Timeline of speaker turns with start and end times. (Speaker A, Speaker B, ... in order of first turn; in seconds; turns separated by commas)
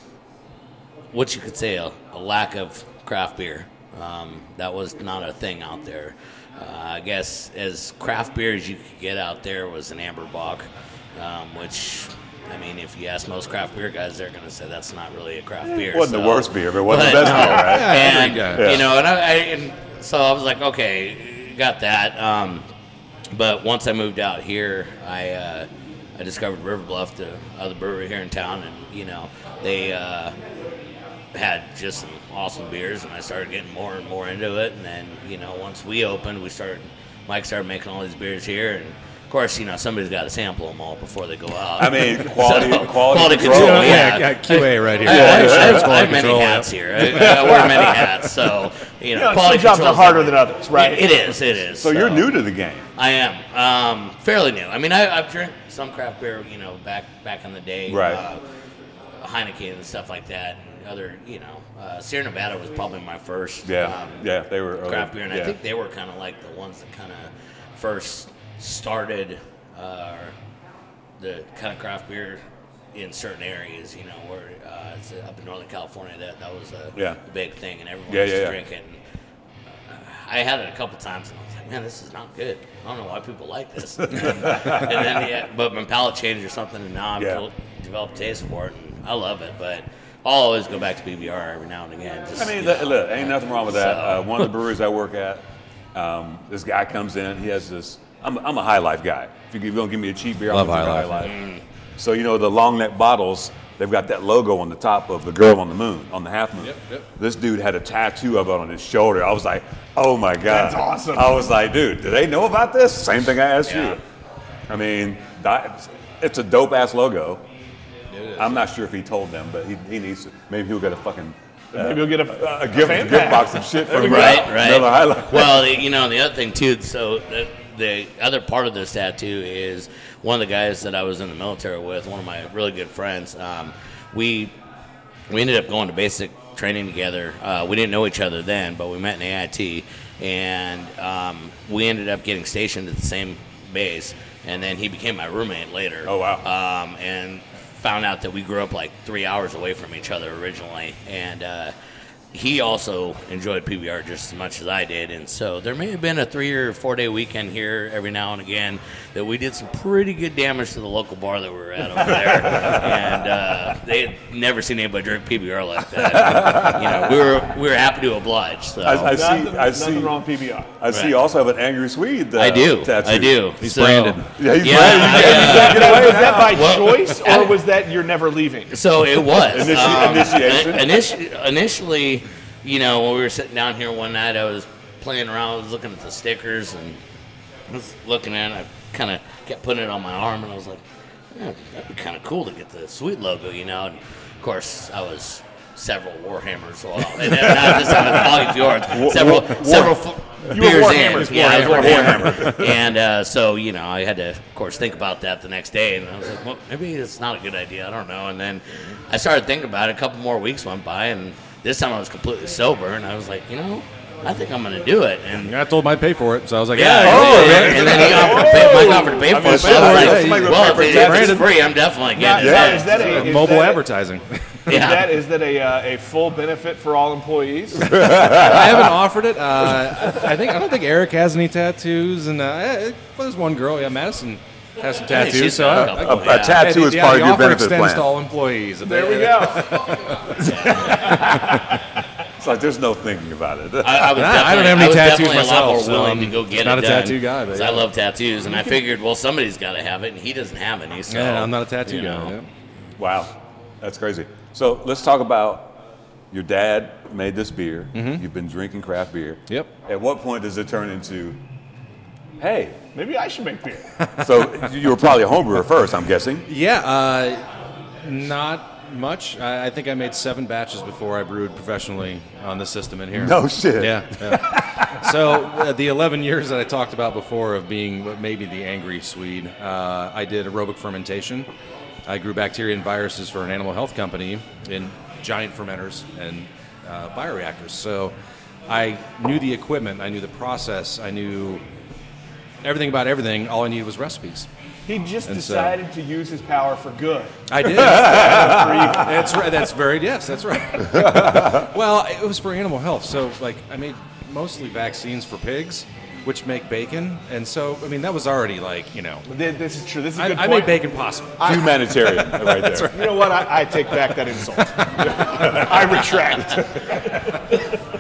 Speaker A: 1.1-22.6, Speaker B: 15.7-18.9, Speaker C: 17.2-18.8, Speaker A: 23.3-30.3, Speaker A: 31.3-52.4, Speaker B: 41.8-44.1, Speaker C: 43.4-47.9, Speaker B: 45.0-46.0, Speaker B: 47.1-47.6, Speaker D: 49.1-51.2, Speaker B: 51.7-52.8, Speaker A: 53.0-58.4, Speaker B: 57.9-58.2, Speaker A: 59.2-64.2, Speaker B: 63.6-65.5, Speaker A: 64.8-70.3, Speaker A: 71.2-72.4, Speaker A: 72.9-79.0, Speaker B: 78.1-78.6, Speaker A: 79.7-94.5, Speaker B: 84.1-85.2, Speaker B: 87.2-87.4, Speaker B: 92.3-101.4, Speaker C: 100.5-101.3, Speaker A: 101.2-101.6, Speaker B: 102.0-114.0, Speaker C: 106.6-107.0, Speaker D: 110.4-111.4, Speaker A: 113.7-114.0, Speaker B: 114.7-117.4, Speaker C: 118.1-118.6, Speaker B: 118.3-125.8, Speaker D: 121.7-124.4, Speaker A: 123.9-134.5, Speaker A: 135.3-151.7, Speaker B: 146.0-146.4, Speaker A: 152.3-169.1, Speaker B: 162.5-162.8, Speaker B: 166.2-166.8, Speaker B: 168.8-170.2, Speaker D: 169.1-170.7, Speaker B: 170.8-173.4, Speaker A: 170.9-171.2, Speaker A: 172.4-177.6, Speaker C: 173.6-174.2, Speaker B: 174.3-176.6, Speaker D: 174.8-178.8, Speaker A: 178.7-187.0, Speaker B: 179.5-180.9, Speaker A: 187.7-190.8, Speaker A: 191.3-215.5, Speaker B: 198.7-200.0, Speaker D: 200.5-202.2, Speaker C: 201.1-202.5, Speaker B: 201.4-202.7, Speaker C: 215.4-218.5, Speaker A: 216.7-223.3, Speaker B: 217.0-221.5, Speaker D: 218.0-219.2, Speaker C: 219.4-221.6, Speaker D: 222.1-223.8, Speaker B: 222.4-222.9, Speaker C: 222.9-224.6, Speaker A: 224.7-225.2, Speaker D: 224.7-228.3, Speaker B: 227.8-228.9, Speaker C: 228.2-241.8, Speaker A: 235.1-236.6, Speaker B: 235.8-238.1, Speaker D: 238.8-239.8, Speaker A: 240.4-241.2, Speaker B: 242.4-244.2, Speaker A: 243.8-252.3, Speaker C: 244.1-247.9, Speaker C: 251.1-252.5, Speaker B: 253.0-255.8, Speaker B: 256.3-261.4, Speaker C: 257.9-258.2, Speaker B: 262.4-262.8, Speaker D: 262.9-263.9, Speaker C: 264.0-264.4, Speaker B: 264.2-266.5, Speaker C: 266.5-267.4, Speaker C: 268.0-281.5, Speaker B: 273.1-275.4, Speaker C: 282.1-288.1, Speaker C: 288.7-291.6, Speaker C: 292.6-294.5, Speaker D: 294.9-299.4, Speaker C: 295.3-295.8, Speaker C: 297.5-309.2, Speaker B: 297.8-298.8, Speaker B: 300.9-301.7, Speaker D: 309.3-310.9, Speaker C: 310.1-314.1, Speaker B: 311.4-313.0, Speaker D: 312.9-316.9, Speaker C: 314.8-315.9